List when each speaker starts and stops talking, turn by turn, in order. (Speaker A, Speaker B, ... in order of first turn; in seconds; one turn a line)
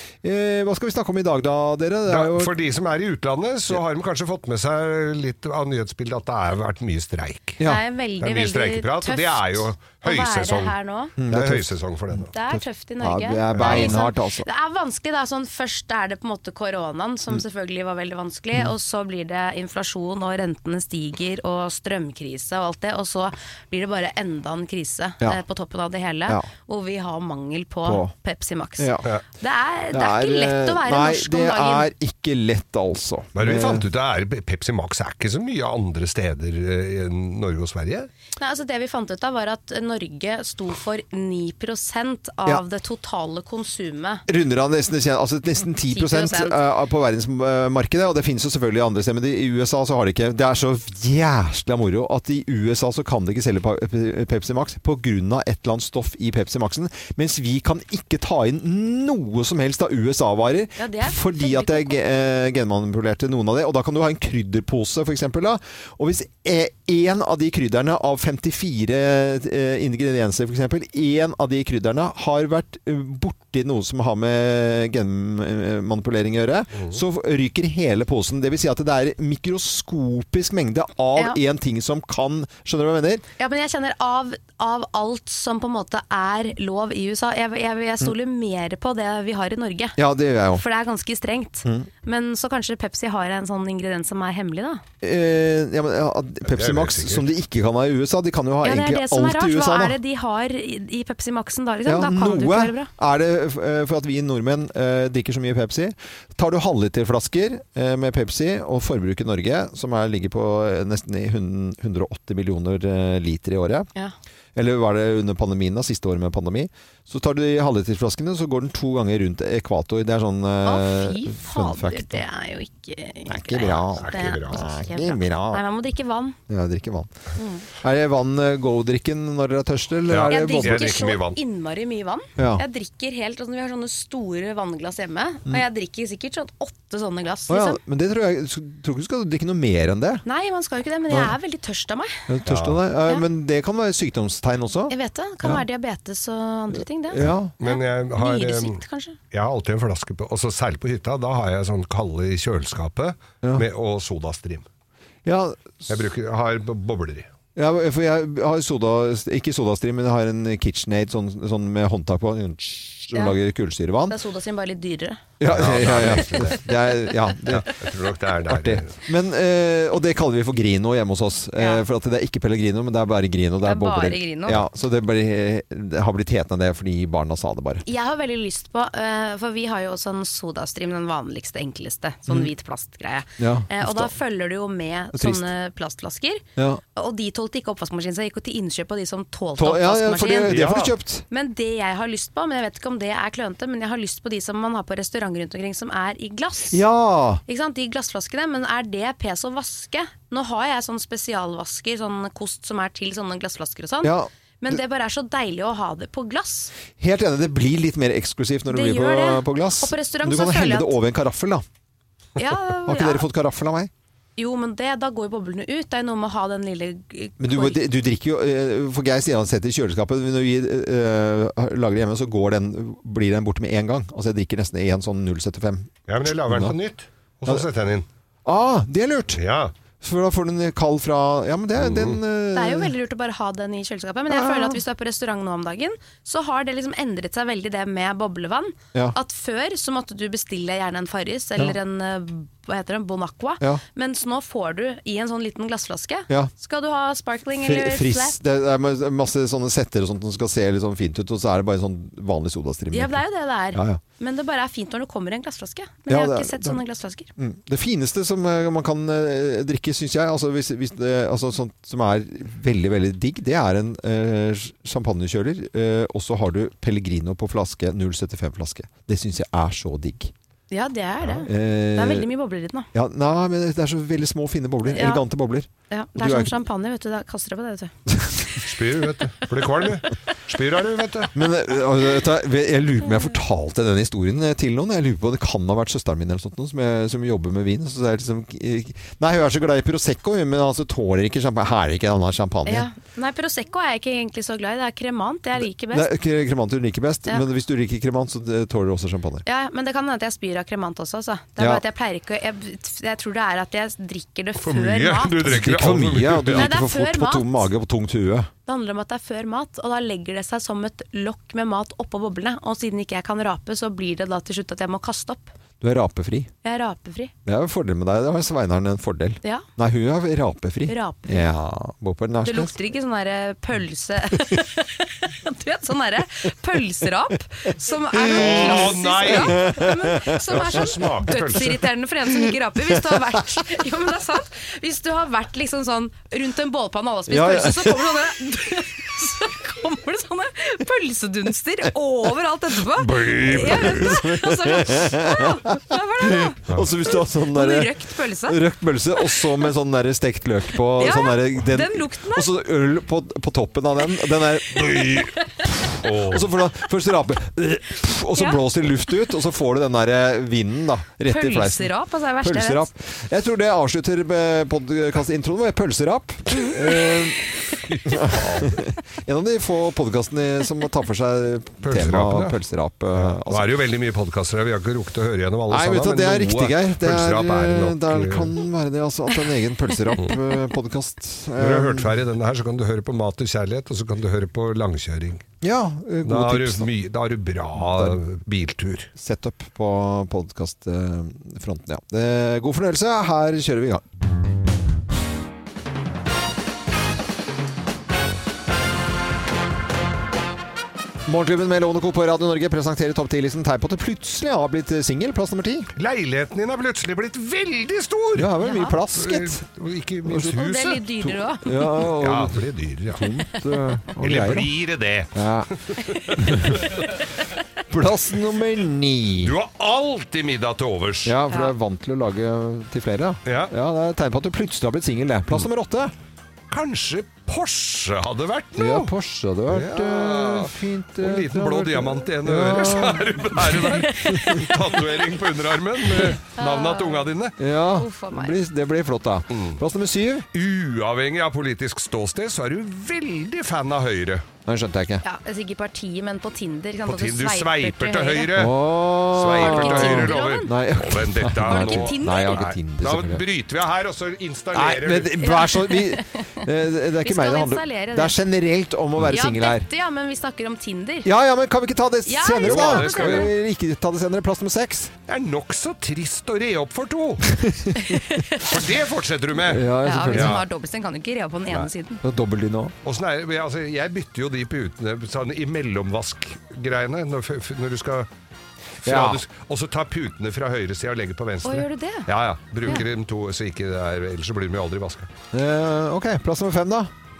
Speaker A: 0.2-2.5
Speaker B: 2.1-7.6
Speaker C: 7.6-11.1
Speaker B: 8.2-10.7
Speaker A: 11.2-11.7
Speaker B: 11.2-12.3
Speaker C: 12.3-31.9
Speaker A: 12.4-14.5
Speaker B: 13.5-14.0
Speaker A: 27.8-28.1
Speaker A: 28.8-29.1
Speaker A: 29.9-33.9
Speaker B: 33.4-38.1
Speaker C: 38.4-44.2
Speaker A: 44.3-83.2
Speaker C: 45.9-46.6
Speaker C: 60.8-62.0
Speaker C: 83.4-90.0
Speaker A: 90.0-90.6
Speaker C: 90.5-94.8
Speaker A: 95.0-100.0
Speaker B: 96.5-97.2
Speaker C: 98.6-102.9
Speaker A: 101.8-113.9
Speaker A: 114.5-122.2
Speaker C: 120.6-126.4
Speaker A: 123.2-125.6
Speaker B: 123.7-124.6
Speaker A: 126.5-127.1
Speaker C: 127.4-127.6
Speaker A: 127.8-131.0
Speaker B: 130.1-131.4
Speaker C: 130.3-137.8
Speaker A: 132.4-132.6
Speaker A: 137.5-140.2
Speaker C: 140.2-142.2
Speaker A: 141.1-141.3
Speaker A: 142.3-145.6
Speaker B: 142.5-142.8
Speaker C: 144.9-149.2
Speaker A: 147.1-147.5
Speaker B: 147.6-148.8
Speaker B: 149.3-154.7
Speaker A: 155.2-155.9
Speaker B: 155.9-157.3
Speaker A: 157.6-164.1
Speaker C: 164.1-165.2
Speaker A: 165.4-167.7
Speaker B: 165.4-166.6
Speaker B: 167.4-168.9
Speaker A: 168.4-177.8
Speaker C: 171.6-171.8
Speaker C: 173.6-174.6
Speaker C: 177.8-186.4
Speaker A: 183.4-184.1
Speaker A: 185.1-185.5
Speaker C: 186.9-190.6
Speaker A: 189.6-191.2
Speaker B: 190.5-190.9
Speaker C: 191.3-196.8
Speaker A: 196.7-197.4
Speaker C: 197.4-206.7
Speaker A: 204.0-204.8
Speaker A: 206.9-211.6
Speaker C: 208.7-210.9
Speaker C: 212.4-213.2
Speaker A: 212.6-213.9
Speaker C: 214.4-217.8
Speaker A: 217.4-225.9
Speaker B: 226.1-228.1
Speaker A: 226.5-226.7
Speaker A: 228.4-229.4
Speaker B: 229.3-229.7
Speaker A: 230.0-232.9
Speaker B: 231.8-232.2
Speaker C: 232.5-248.4
Speaker A: 234.3-234.8
Speaker A: 247.6-254.0
Speaker C: 252.9-257.3
Speaker A: 256.1-256.8
Speaker A: 257.4-270.3
Speaker C: 270.7-272.9
Speaker A: 271.3-272.3
Speaker A: 272.9-276.5
Speaker C: 274.9-275.2
Speaker C: 275.9-277.9
Speaker B: 278.6-281.3
Speaker A: 281.3-292.9
Speaker C: 292.6-296.1
Speaker A: 295.6-299.4
Speaker C: 299.4-305.4
Speaker A: 301.6-301.8
Speaker B: 304.6-306.7
Speaker A: 305.4-308.5
Speaker C: 306.6-307.7
Speaker C: 308.6-315.5
Speaker A: 315.8-316.5
Speaker C: 316.6-317.3
Speaker A: 317.4-322.7
Speaker C: 320.9-321.5
Speaker C: 322.4-346.6
Speaker A: 328.1-331.0
Speaker B: 328.3-329.7
Speaker B: 330.5-331.7
Speaker A: 333.0-333.3
Speaker A: 337.3-338.2
Speaker B: 342.9-344.1
Speaker A: 343.5-373.7
Speaker B: 346.7-347.0
Speaker C: 347.1-348.6
Speaker C: 351.0-352.5
Speaker B: 356.0-356.5
Speaker C: 358.3-358.6
Speaker C: 361.3-362.9
Speaker B: 367.8-368.9
Speaker B: 371.8-372.6
Speaker B: 373.1-378.5
Speaker A: 375.7-382.1
Speaker B: 381.6-385.4
Speaker A: 385.6-386.9
Speaker B: 386.2-389.1
Speaker A: 387.8-388.2
Speaker A: 389.1-394.0
Speaker A: 401.2-405.9
Speaker B: 406.0-408.5
Speaker A: 408.3-409.6
Speaker C: 408.6-409.0
Speaker B: 409.1-411.3
Speaker A: 410.2-410.6
Speaker C: 410.4-412.1
Speaker A: 411.6-414.7
Speaker B: 412.1-413.2
Speaker B: 414.1-417.0
Speaker A: 415.3-415.7
Speaker A: 416.3-416.9
Speaker A: 417.9-419.5
Speaker B: 419.4-421.4
Speaker A: 421.2-426.1
Speaker B: 423.4-423.7
Speaker B: 426.7-429.1
Speaker A: 428.8-434.7
Speaker B: 429.7-437.5
Speaker C: 436.6-437.3
Speaker A: 437.6-440.4
Speaker C: 437.9-438.6
Speaker B: 439.5-439.8
Speaker B: 440.5-444.4
Speaker A: 444.6-445.2
Speaker C: 445.2-448.5
Speaker B: 447.1-448.8
Speaker A: 448.5-453.4
Speaker B: 449.3-455.4
Speaker C: 449.6-450.7
Speaker C: 451.6-452.6
Speaker A: 454.7-459.9
Speaker C: 455.4-456.4
Speaker C: 457.2-458.4
Speaker C: 459.2-461.3
Speaker A: 461.2-465.1
Speaker C: 462.2-463.5
Speaker B: 462.6-463.5
Speaker B: 465.3-467.6
Speaker A: 467.5-468.2
Speaker C: 468.0-468.7
Speaker B: 468.6-470.6
Speaker A: 469.6-470.6
Speaker C: 470.0-472.2
Speaker A: 472.2-472.9
Speaker B: 473.0-478.3
Speaker B: 479.0-485.3
Speaker A: 479.0-479.4
Speaker C: 481.6-482.3
Speaker A: 485.5-487.1